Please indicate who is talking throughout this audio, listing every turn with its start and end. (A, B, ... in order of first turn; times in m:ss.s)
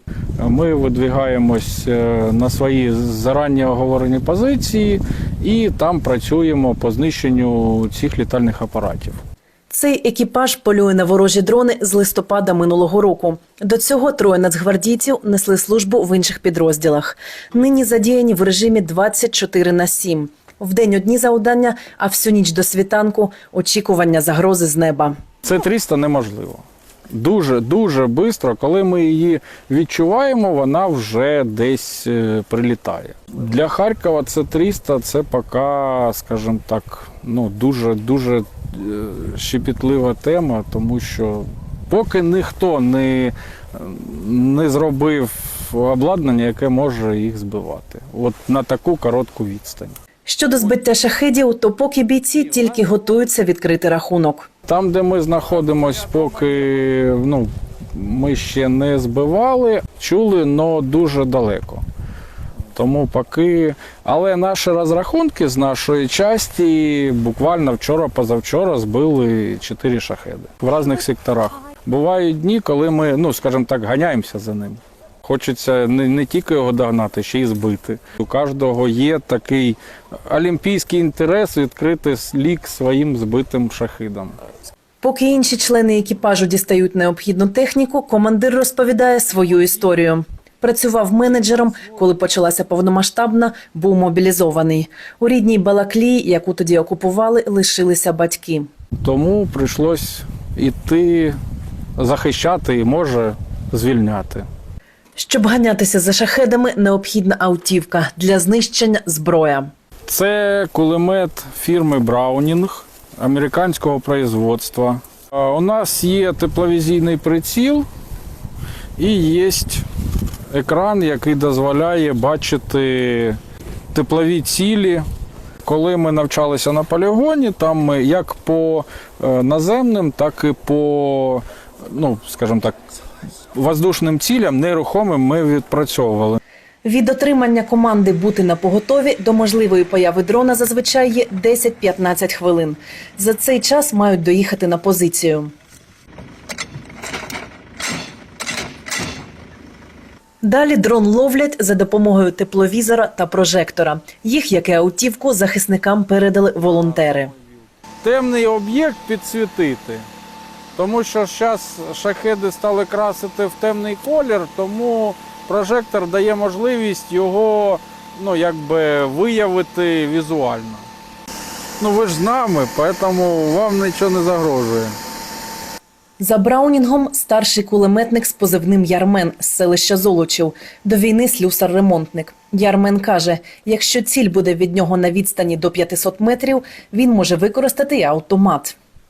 0:00.4-0:09.2 A
0:09.7-0:25.2 B
0:25.4-0:50.0 A
0:50.2-0:54.5 B
0:54.6-1:01.8 A
1:02.7-1:24.4 A
1:25.0-1:38.7 B
1:39.0-1:41.4 A
1:42.0-1:44.5 A
1:45.2-1:49.7 B
1:50.1-1:57.8 A
1:59.0-1:59.8 A
2:00.5-2:03.4 A
2:03.9-2:05.0 A
2:05.6-2:12.7 A
2:13.5-2:16.4 A
2:16.8-2:25.5 B
2:30.4-2:37.3 B
2:38.0-2:40.1 A
2:40.7-2:50.9 A
2:51.8-2:55.0 A
2:56.2-3:08.7 B